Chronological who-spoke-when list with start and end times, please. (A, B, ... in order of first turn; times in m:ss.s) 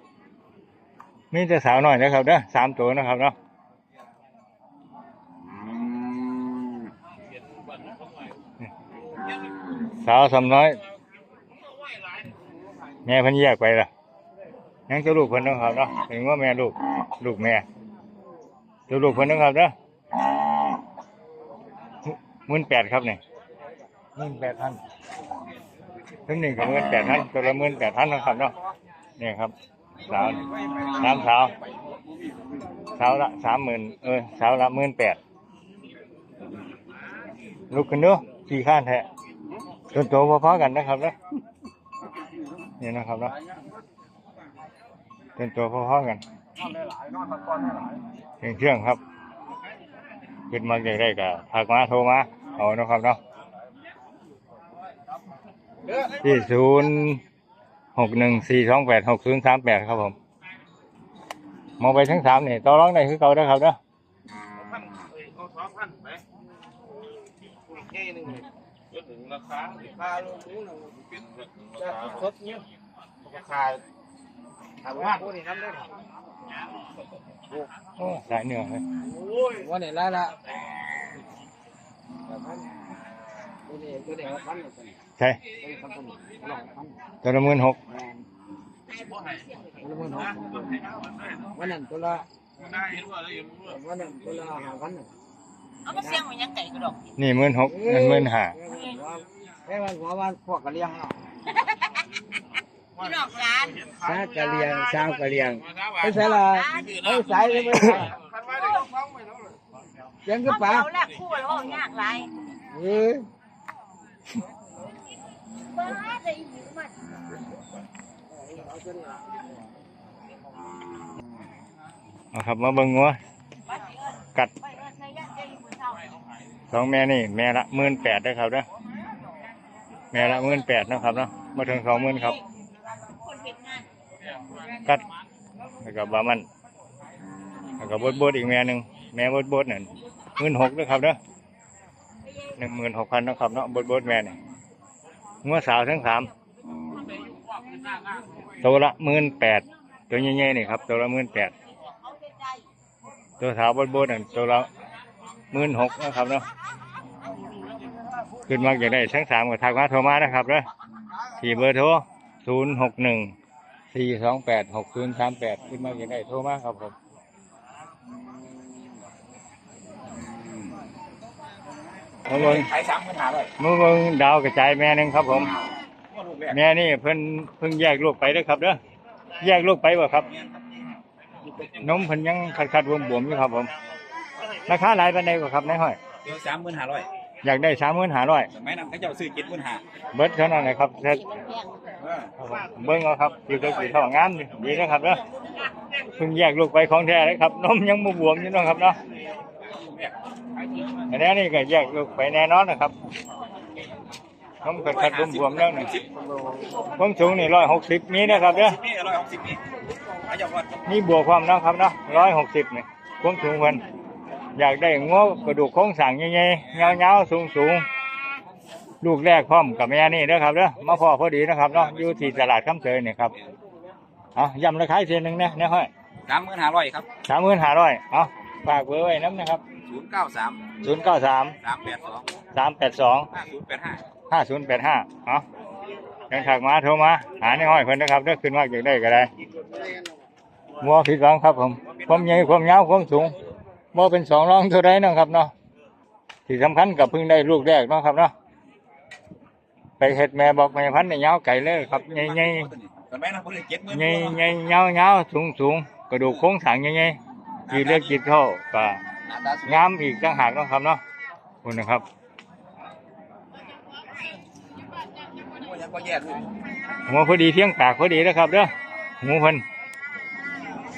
0:01.3-0:03.4 A
0:10.0-0:10.8 A
0:13.0-0:13.9 A
0:14.9-0:17.6 A
0:18.9-0:19.7 A
0:22.0-0:23.2 A
0:24.2-0:24.8 A
0:26.3-0:28.5 A
0:29.2-0:29.5 A
0:30.1-0:31.5 A
0:33.0-0:35.2 A
0:37.7-0:39.1 A
0:39.9-0:41.2 A
0:42.8-0:43.3 A
0:45.4-0:46.2 A
0:48.4-0:49.0 A
0:50.5-0:53.2 A
0:56.1-0:57.2 A
0:58.0-1:00.2 A
1:01.8-1:03.8 A
1:11.8-1:12.6 B
1:14.9-1:15.9 B
1:18.0-1:18.8 A
1:19.5-1:20.4 B
1:23.7-1:24.9 B
1:25.6-1:27.0 B
1:27.2-1:27.8 A
1:27.9-1:28.2 B
1:29.8-1:30.4 B
1:31.5-1:32.3 B
1:33.6-1:35.1 B
1:35.9-1:37.0 C
1:37.2-1:38.6 A
1:38.6-1:41.2 B
1:43.0-1:45.1 C
1:44.0-1:48.2 B
1:46.2-1:47.6 C
1:48.4-1:48.9 C
1:50.2-1:50.8 B
1:50.4-1:52.3 C
1:52.7-1:53.3 B
1:55.7-1:56.9 C
2:02.3-2:03.2 A
2:04.8-2:06.0 C
2:06.7-2:08.7 A
2:10.1-2:12.4 A
2:13.1-2:13.8 C
2:15.8-2:16.5 A
2:17.8-2:21.2 A
2:22.6-2:24.4 A
2:25.4-2:26.3 A
2:28.6-2:31.5 A
2:32.2-2:32.6 C
2:33.4-2:34.7 A
2:35.5-2:36.5 A
2:38.5-2:40.7 A
2:41.4-2:43.3 A
2:43.9-2:46.9 A
2:52.3-2:52.7 A
2:52.3-2:53.5 D
2:53.6-2:55.5 A
2:56.1-2:56.6 D
2:56.5-2:58.8 A
2:59.4-3:00.3 A
3:01.8-3:03.7 A
3:04.7-3:06.0 A
3:06.2-3:07.1 D
3:07.4-3:08.5 A
3:08.5-3:09.8 D
3:10.1-3:11.3 A
3:11.3-3:11.8 C
3:12.0-3:12.3 D
3:12.4-3:15.2 A
3:16.2-3:19.0 A
3:19.8-3:20.1 D
3:21.1-3:22.9 A
3:24.6-3:25.9 A
3:24.8-3:26.1 D
3:27.0-3:28.8 A
3:28.2-3:29.6 D
3:30.3-3:30.7 D
3:30.9-3:33.8 A
3:34.6-3:37.9 A
3:39.0-3:43.3 A
3:41.8-3:42.5 D
3:44.4-3:45.9 A
3:46.3-3:47.1 D
3:47.2-3:49.6 A
3:49.8-3:50.8 D
3:50.8-3:51.6 A
3:51.6-3:52.3 D
3:52.5-3:53.3 A
3:53.3-3:54.0 D
3:54.3-3:55.4 A
3:56.3-3:59.3 A
4:00.8-4:03.4 A
4:03.9-4:05.5 A
4:06.5-4:08.3 A
4:10.0-4:12.7 A
4:11.7-4:14.4 D
4:13.9-4:17.2 A
4:17.7-4:18.2 D
4:17.7-4:19.0 A
4:19.3-4:19.8 D
4:19.7-4:21.0 A
4:21.6-4:22.1 A
4:25.4-4:26.4 D
4:27.1-4:29.6 A